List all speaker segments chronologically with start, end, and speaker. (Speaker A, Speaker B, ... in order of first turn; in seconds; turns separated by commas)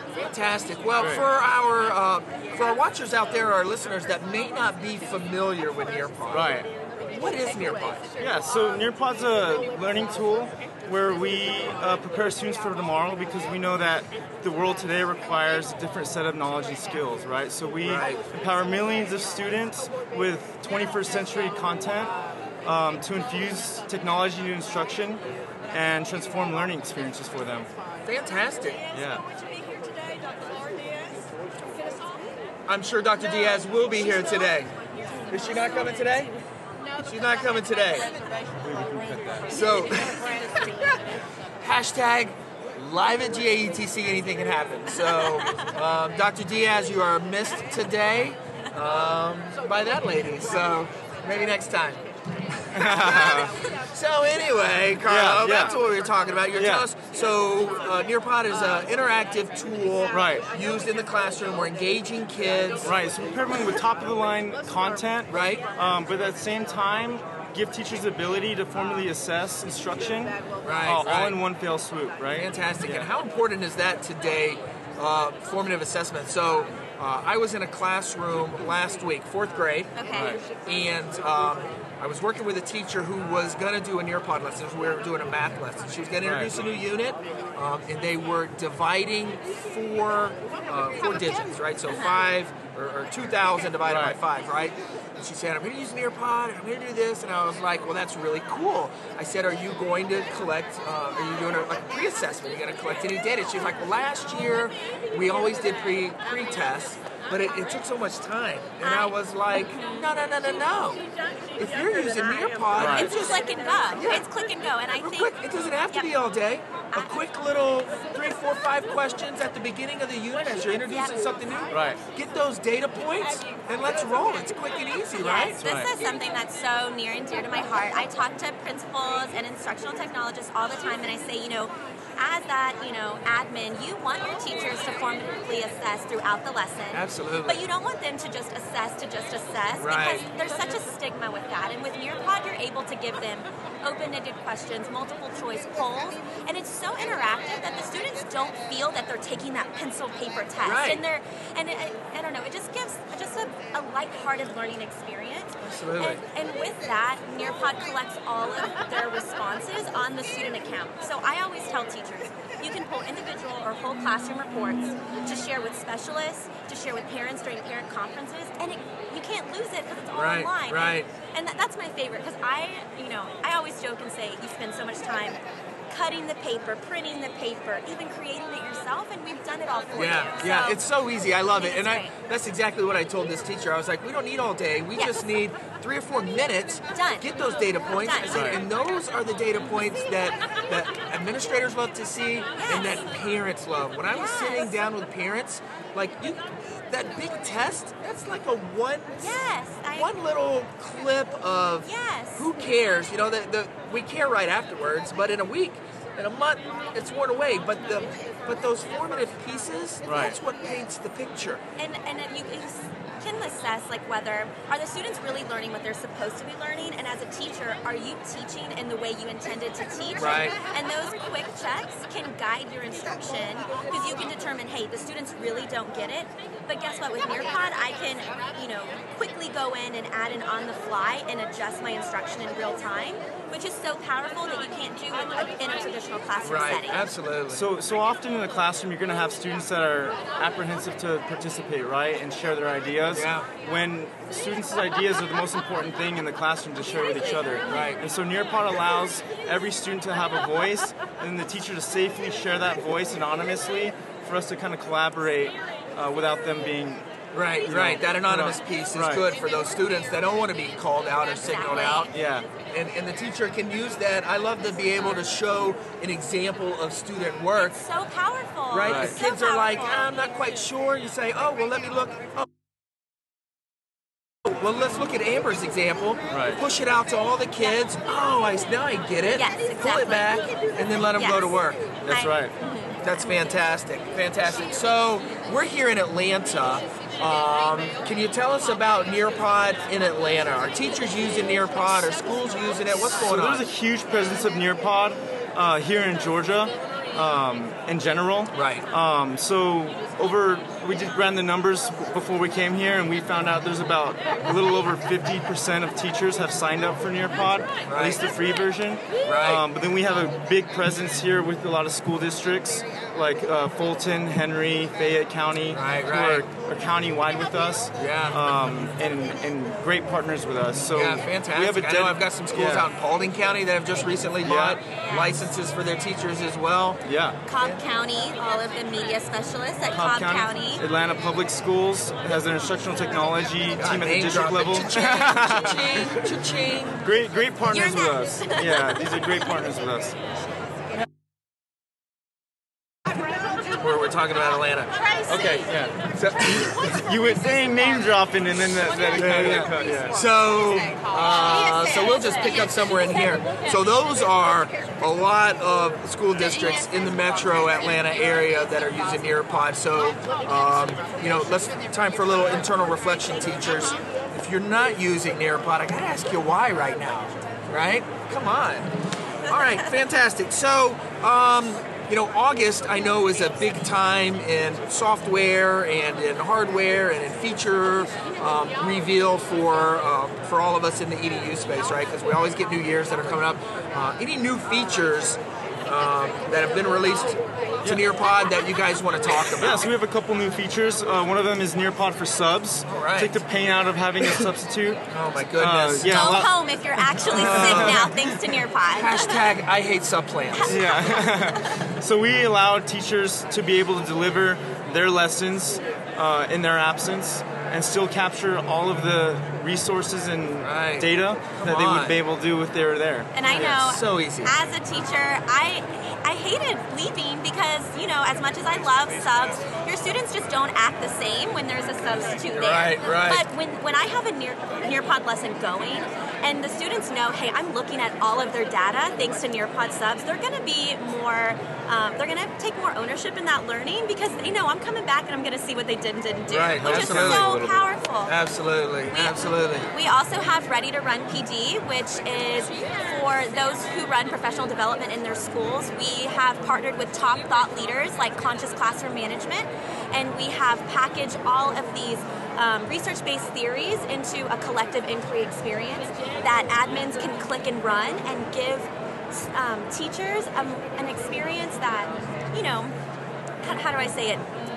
Speaker A: 0.1-8.1, Speaker B: 0.9-1.2, Speaker B: 6.3-6.7, Speaker B: 8.2-22.1, Speaker A: 17.8-18.2, Speaker B: 22.6-27.7, Speaker A: 28.1-28.8, Speaker B: 28.9-29.2, Speaker A: 32.7-34.7, Speaker A: 35.3-36.3, Speaker A: 37.0-38.1, Speaker B: 38.6-39.6, Speaker A: 39.5-40.7, Speaker A: 41.6-52.0, Speaker C: 45.0-45.7, Speaker A: 52.5-62.9, Speaker B: 52.7-53.6, Speaker B: 55.0-55.8, Speaker B: 56.6-56.9, Speaker B: 60.1-60.5, Speaker B: 62.8-73.1, Speaker A: 65.3-65.6, Speaker A: 70.6-71.4, Speaker A: 72.3-80.0, Speaker C: 80.0-80.4, Speaker B: 80.1-80.4, Speaker A: 80.6-111.0, Speaker B: 86.2-86.5, Speaker B: 93.8-94.2, Speaker C: 108.8-110.1, Speaker A: 111.5-114.2, Speaker B: 112.8-113.1, Speaker C: 112.8-115.3, Speaker A: 115.0-125.6, Speaker C: 116.9-117.2, Speaker C: 120.9-121.1, Speaker B: 121.7-122.0, Speaker C: 125.2-180.8, Speaker B: 125.6-125.9, Speaker A: 136.9-137.6, Speaker A: 139.8-140.3, Speaker A: 150.6-151.0, Speaker A: 155.6-156.2, Speaker A: 170.1-171.1, Speaker A: 179.9-199.3, Speaker C: 181.5-182.1, Speaker C: 184.9-185.2, Speaker C: 186.9-187.3, Speaker C: 187.9-188.6, Speaker B: 188.3-188.6, Speaker C: 192.6-193.0, Speaker C: 194.1-194.7, Speaker C: 199.2-200.1, Speaker A: 199.9-211.6, Speaker C: 201.8-202.5, Speaker B: 210.0-210.4, Speaker C: 211.8-237.0, Speaker A: 220.2-220.6, Speaker A: 236.4-237.7, Speaker B: 237.5-257.1, Speaker A: 243.1-243.5, Speaker A: 247.7-248.0, Speaker A: 257.3-262.1, Speaker B: 257.6-259.3, Speaker C: 261.4-262.1, Speaker B: 262.1-262.5, Speaker A: 262.7-267.8, Speaker C: 267.6-270.0, Speaker A: 268.7-272.5, Speaker B: 268.8-269.1, Speaker A: 274.4-281.8, Speaker B: 276.3-276.6, Speaker C: 279.3-280.4, Speaker C: 281.2-281.5, Speaker B: 282.0-282.5, Speaker C: 282.1-283.0, Speaker A: 283.0-293.6, Speaker B: 293.1-322.9, Speaker A: 298.5-298.8, Speaker A: 307.9-308.2, Speaker A: 309.2-309.6, Speaker A: 315.7-316.4, Speaker A: 318.0-318.4, Speaker A: 320.9-327.0, Speaker B: 324.4-324.8, Speaker C: 325.0-325.4, Speaker B: 327.0-327.4, Speaker C: 327.5-330.8, Speaker B: 329.9-336.3, Speaker A: 333.8-337.1, Speaker B: 337.0-340.5, Speaker C: 337.7-339.1, Speaker A: 343.8-347.1, Speaker B: 345.6-346.0, Speaker B: 346.8-350.2, Speaker A: 349.1-368.9, Speaker A: 369.4-389.9, Speaker B: 389.5-395.0, Speaker A: 392.9-393.4, Speaker A: 395.1-396.4, Speaker B: 395.6-398.3, Speaker C: 396.0-399.4, Speaker A: 397.3-398.1, Speaker A: 398.9-400.8, Speaker C: 400.6-401.1, Speaker B: 400.6-413.3, Speaker A: 410.6-412.2, Speaker C: 413.3-438.3, Speaker A: 413.4-414.5, Speaker A: 422.5-423.4, Speaker A: 436.5-439.9, Speaker B: 436.8-437.8, Speaker C: 439.1-462.9, Speaker C: 463.6-464.5